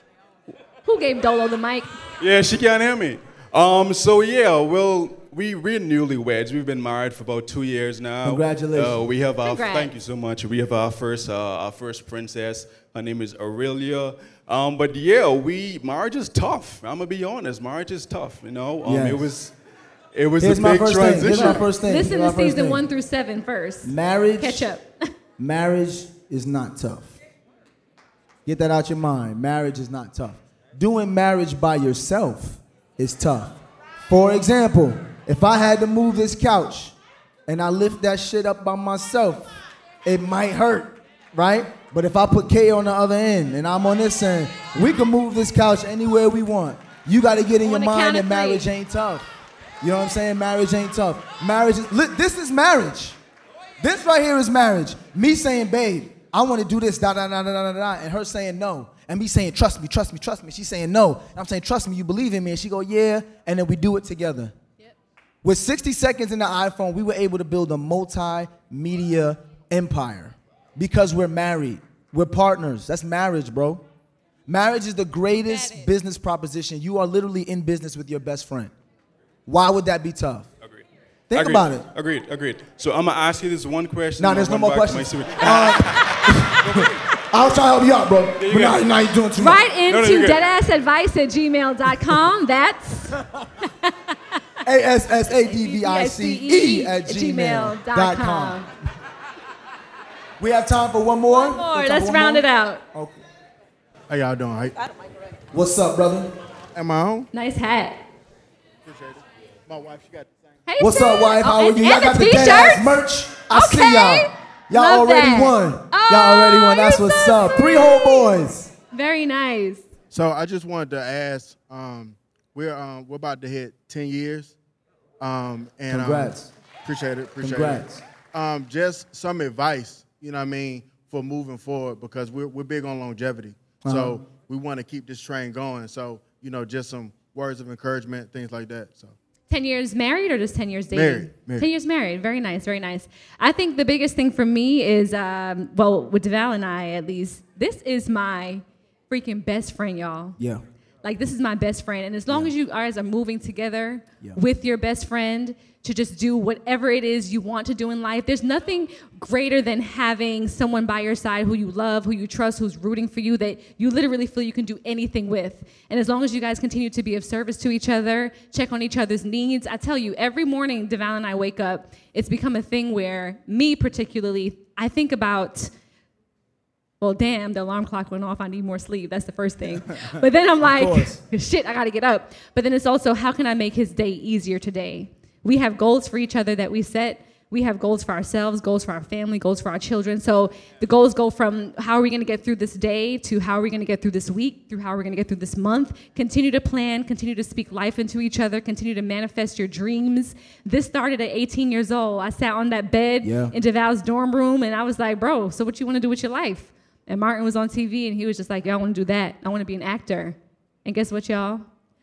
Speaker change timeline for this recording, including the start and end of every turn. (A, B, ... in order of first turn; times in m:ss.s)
0:00.8-0:02.0 A
0:02.2-0:19.5 B
0:08.2-0:09.1 C
0:09.4-0:09.9 A
0:18.8-0:19.3 C
0:20.1-0:21.7 B
0:20.4-0:22.8 C
0:21.2-0:24.9 A
0:23.8-0:24.6 C
0:25.4-0:27.2 C
0:28.4-0:36.9 C
0:37.5-0:39.5 C
0:40.0-0:49.3 C
0:47.6-0:48.7 A
0:49.8-0:53.2 C
0:53.8-1:04.5 C
1:05.4-1:13.8 C
1:14.5-1:18.7 C
1:15.4-1:15.9 A
1:19.5-1:20.5 C
1:20.6-1:26.9 B
1:21.3-1:21.9 C
1:24.2-1:29.6 C
1:28.4-1:29.1 B
1:29.4-1:34.0 A
1:29.8-1:30.4 B
1:34.6-1:38.7 C
1:35.4-1:38.7 A
1:40.4-1:43.2 C
1:41.3-1:42.8 A
1:44.1-1:44.8 D
1:45.5-1:46.3 C
1:46.7-1:47.3 D
1:47.3-1:48.0 A
1:48.8-1:50.3 D
1:50.7-1:58.3 A
1:50.8-1:58.7 C
1:58.9-1:59.8 A
2:00.1-2:04.5 D
2:05.2-2:19.1 D
2:05.9-2:06.5 C
2:07.4-2:08.0 C
2:13.8-2:14.2 C
2:19.5-2:30.4 A
2:20.9-2:21.6 D
2:30.4-2:30.6 C
2:31.0-2:55.7 A
2:57.0-3:31.6 A
3:00.6-3:01.2 C
3:23.2-3:23.6 C